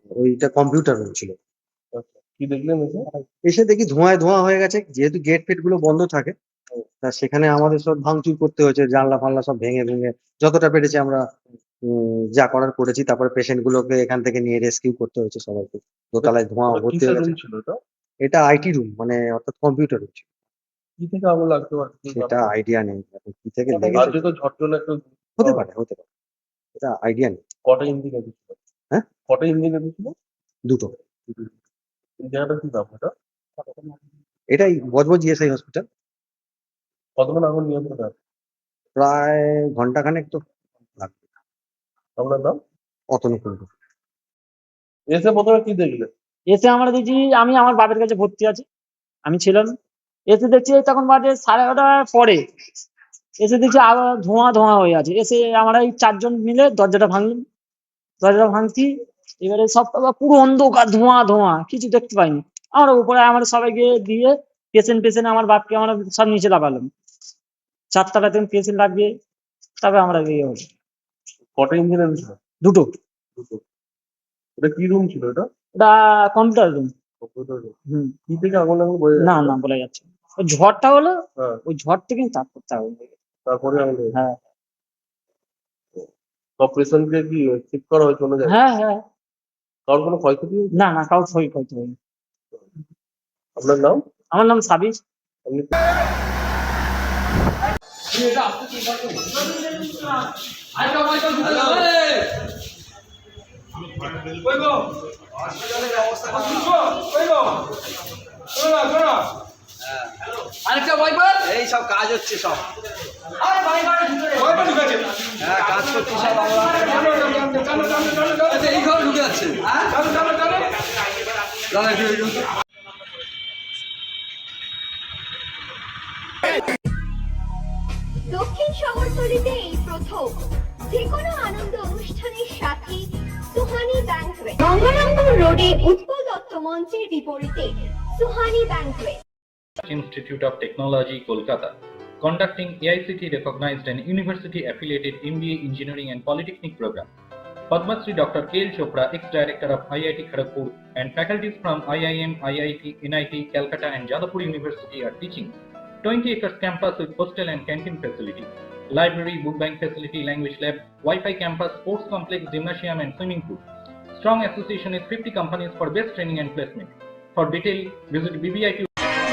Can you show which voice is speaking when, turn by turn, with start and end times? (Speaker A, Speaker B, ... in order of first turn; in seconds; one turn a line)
Speaker A: 0.2-1.3
Speaker B: 1.9-3.0
Speaker A: 3.5-6.3
Speaker A: 7.0-11.2
Speaker A: 11.9-17.4
Speaker B: 16.2-17.8
Speaker A: 18.2-20.2
Speaker B: 21.0-22.4
Speaker A: 22.1-24.2
Speaker B: 23.7-25.6
Speaker A: 25.4-26.0
Speaker A: 26.8-27.4
Speaker B: 27.6-28.6
Speaker B: 29.3-30.1
Speaker B: 32.2-33.1
Speaker A: 34.5-35.9
Speaker B: 37.2-38.1
Speaker A: 39.0-40.4
Speaker B: 42.2-42.6
Speaker A: 43.1-43.7
Speaker B: 45.1-46.1
Speaker C: 46.5-48.6
Speaker C: 49.2-49.7
Speaker C: 50.3-52.4
Speaker C: 53.4-57.4
Speaker C: 58.2-66.9
Speaker C: 67.9-69.1
Speaker C: 69.8-70.6
Speaker B: 71.6-72.3
Speaker C: 72.6-72.9
Speaker B: 74.6-75.5
Speaker C: 75.8-76.9
Speaker B: 77.2-77.7
Speaker B: 78.3-79.5
Speaker C: 79.2-83.1
Speaker B: 83.5-84.1
Speaker B: 86.6-88.5
Speaker C: 88.5-89.0
Speaker B: 89.9-90.7
Speaker C: 90.7-91.9
Speaker B: 93.6-94.0
Speaker C: 94.3-95.0
Speaker D: 100.8-102.2
Speaker D: 106.0-106.6
Speaker D: 110.7-112.6
Speaker D: 114.4-114.7
Speaker D: 115.4-120.0
Speaker D: 121.7-122.4
Speaker E: 128.3-139.2
Speaker F: 139.8-147.1
Speaker F: 147.7-163.6
Speaker F: 164.1-168.9